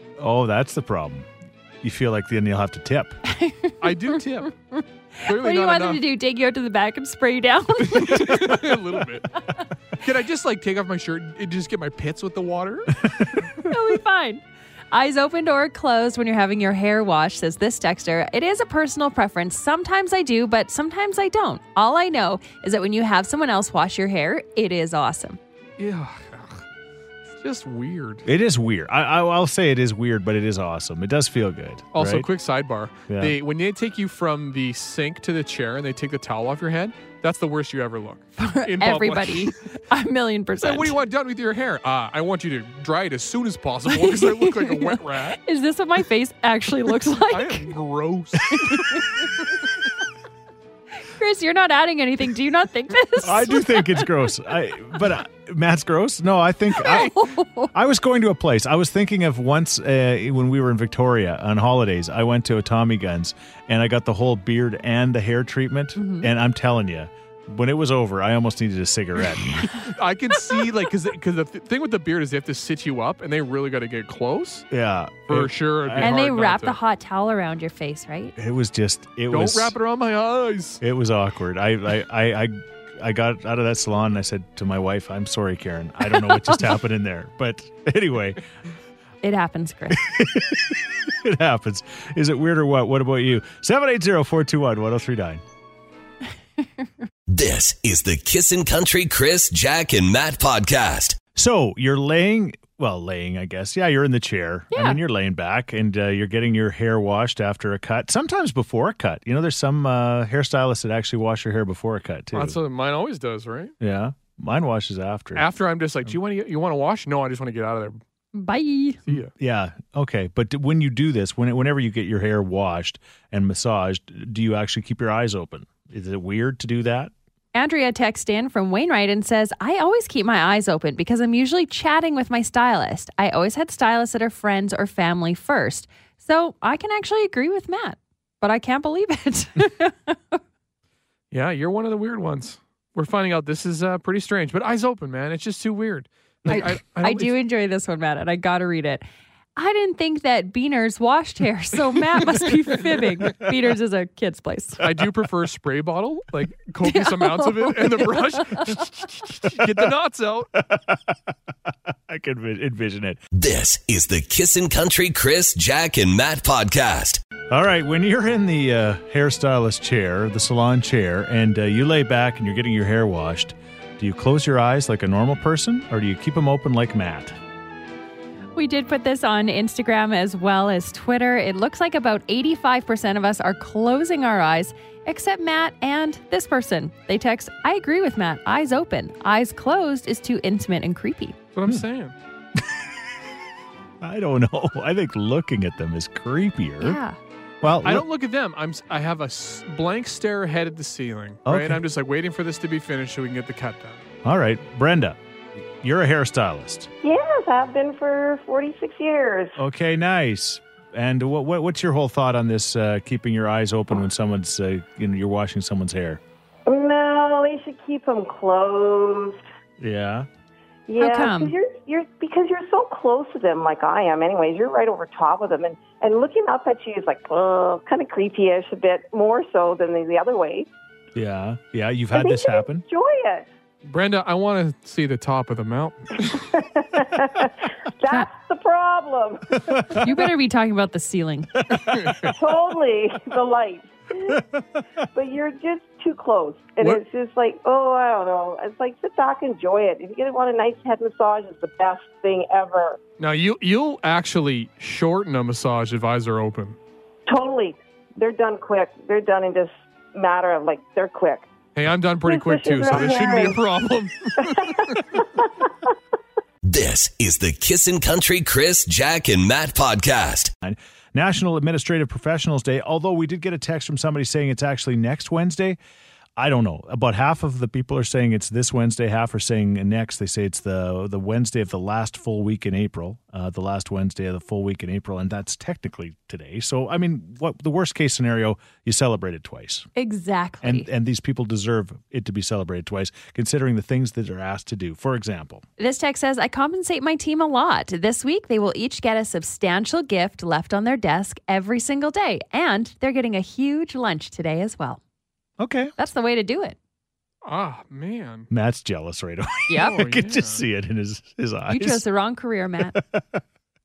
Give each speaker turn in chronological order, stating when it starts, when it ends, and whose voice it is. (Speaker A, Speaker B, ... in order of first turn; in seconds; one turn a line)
Speaker A: 0.2-1.3
Speaker A: 1.8-3.2
Speaker B: 3.3-8.7
Speaker C: 3.8-4.5
Speaker C: 5.2-6.0
Speaker C: 7.8-9.4
Speaker C: 10.0-13.1
Speaker B: 13.6-25.4
Speaker C: 25.8-26.6
Speaker C: 27.3-28.2
Speaker A: 28.2-32.3
Speaker C: 31.9-39.7
Speaker A: 33.1-33.4
Speaker B: 38.4-41.0
Speaker C: 40.6-45.4
Speaker B: 43.9-47.7
Speaker C: 47.3-49.6
Speaker B: 48.5-49.5
Speaker B: 51.0-54.2
Speaker A: 53.2-69.7
Speaker B: 56.7-57.7
Speaker B: 66.0-66.3
Speaker C: 69.7-74.7
Speaker A: 74.7-76.2
Speaker C: 75.3-76.8
Speaker B: 76.0-78.3
Speaker A: 78.4-79.8
Speaker C: 79.3-80.8
Speaker A: 80.8-88.4
Speaker B: 89.2-90.1
Speaker A: 89.9-95.4
Speaker D: 97.3-101.2
Speaker A: 101.4-112.6
Speaker B: 104.7-105.0
Speaker C: 112.3-113.8
Speaker A: 113.8-115.5
Speaker C: 115.4-118.0
Speaker B: 118.3-119.0
Speaker C: 119.1-119.3
Speaker A: 119.1-127.1
Speaker B: 127.5-140.4
Speaker C: 141.3-147.3
Speaker B: 146.5-149.1
Speaker B: 149.6-154.8
Speaker C: 154.8-160.5
Speaker B: 156.8-158.8
Speaker A: 160.6-161.2
Speaker A: 161.9-163.2
Speaker D: 163.3-167.2
Speaker A: 167.5-177.4
Speaker B: 178.6-191.4
Speaker C: 191.6-192.2
Speaker A: 192.6-192.9
Speaker A: 194.0-197.0
Speaker B: 196.8-197.2
Speaker A: 197.6-198.1
Speaker C: 197.8-204.1
Speaker A: 201.5-201.8
Speaker A: 204.2-205.2
Speaker A: 205.8-206.9
Speaker E: 207.0-209.6
Speaker A: 209.6-216.2
Speaker E: 216.7-219.4
Speaker A: 219.8-220.3
Speaker E: 220.9-230.7
Speaker B: 221.0-221.6
Speaker A: 231.2-232.8
Speaker E: 232.1-233.5
Speaker C: 233.8-236.4
Speaker E: 236.3-240.0
Speaker A: 239.7-240.3
Speaker B: 240.0-241.5
Speaker A: 241.6-242.3
Speaker C: 241.8-242.3
Speaker E: 242.3-244.4
Speaker A: 244.3-244.6
Speaker E: 245.1-253.0
Speaker C: 253.2-256.8
Speaker E: 257.3-261.5
Speaker C: 261.8-265.0
Speaker E: 262.2-263.6
Speaker E: 264.4-265.7
Speaker D: 266.6-270.5
Speaker A: 270.6-275.8
Speaker A: 276.4-289.9
Speaker B: 290.0-290.9
Speaker A: 290.6-295.6
Speaker B: 295.8-305.0
Speaker A: 305.6-305.9
Speaker B: 306.0-306.8
Speaker C: 307.4-308.5
Speaker A: 308.5-312.0
Speaker B: 309.7-310.0
Speaker C: 309.8-310.6
Speaker B: 311.7-313.0
Speaker A: 312.9-313.4